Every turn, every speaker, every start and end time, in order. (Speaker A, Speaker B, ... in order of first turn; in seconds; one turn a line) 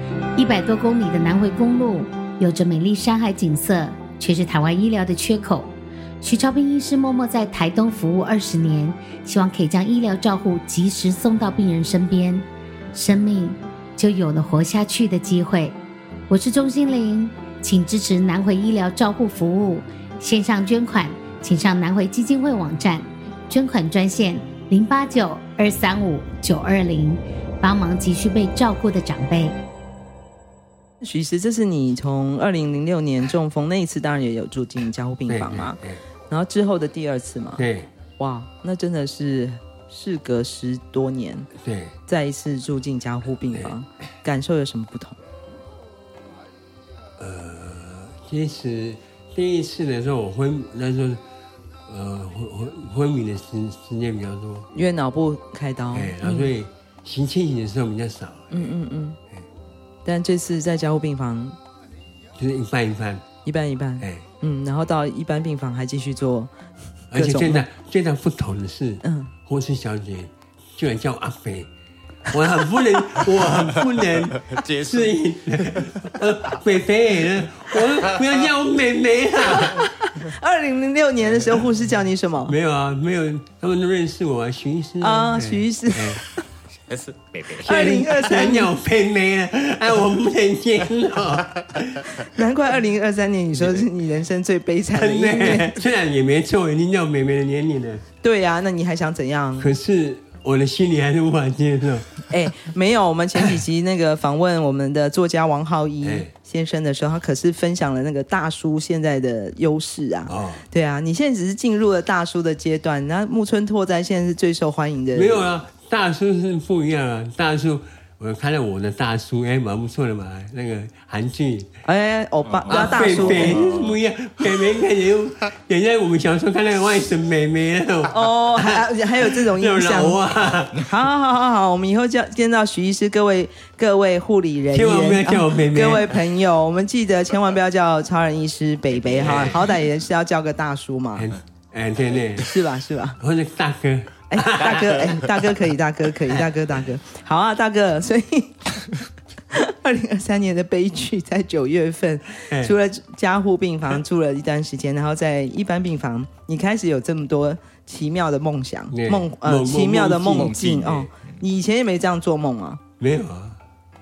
Speaker A: 0.4-15.8
Speaker A: 16.3-29.6
Speaker B: 31.0-37.6
Speaker C: 35.3-36.0
Speaker C: 37.6-37.9
Speaker B: 38.2-41.5
Speaker C: 41.6-42.0
Speaker B: 42.1-45.2
Speaker C: 47.2-51.2
Speaker C: 51.9-54.7
Speaker B: 54.7-56.5
Speaker C: 55.9-58.7
Speaker B: 58.5-59.2
Speaker B: 60.0-61.6
Speaker C: 62.4-63.2
Speaker B: 63.4-66.5
Speaker C: 64.0-64.3
Speaker C: 67.1-71.7
Speaker B: 67.1-67.7
Speaker B: 69.0-69.3
Speaker C: 72.3-79.9
Speaker D: 74.5-75.2
Speaker D: 75.7-75.9
Speaker B: 79.5-82.5
Speaker C: 82.5-86.2
Speaker B: 85.0-86.4
Speaker D: 86.9-88.1
Speaker B: 87.6-88.7
Speaker C: 87.6-92.0
Speaker B: 92.1-95.8
Speaker C: 94.9-98.0
Speaker B: 98.2-99.7
Speaker C: 99.6-102.2
Speaker B: 102.3-115.4
Speaker C: 106.0-106.3
Speaker C: 110.3-110.6
Speaker C: 115.1-121.7
Speaker B: 121.8-123.7
Speaker D: 122.6-123.8
Speaker C: 122.7-130.9
Speaker B: 128.1-130.2
Speaker B: 130.8-141.3
Speaker C: 134.7-136.2
Speaker C: 139.1-139.7
Speaker C: 141.2-142.5
Speaker B: 142.4-143.2
Speaker C: 143.2-145.2
Speaker B: 144.3-148.9
Speaker B: 149.5-162.8
Speaker C: 152.5-152.8
Speaker C: 158.9-160.9
Speaker D: 160.5-161.1
Speaker C: 163.0-163.6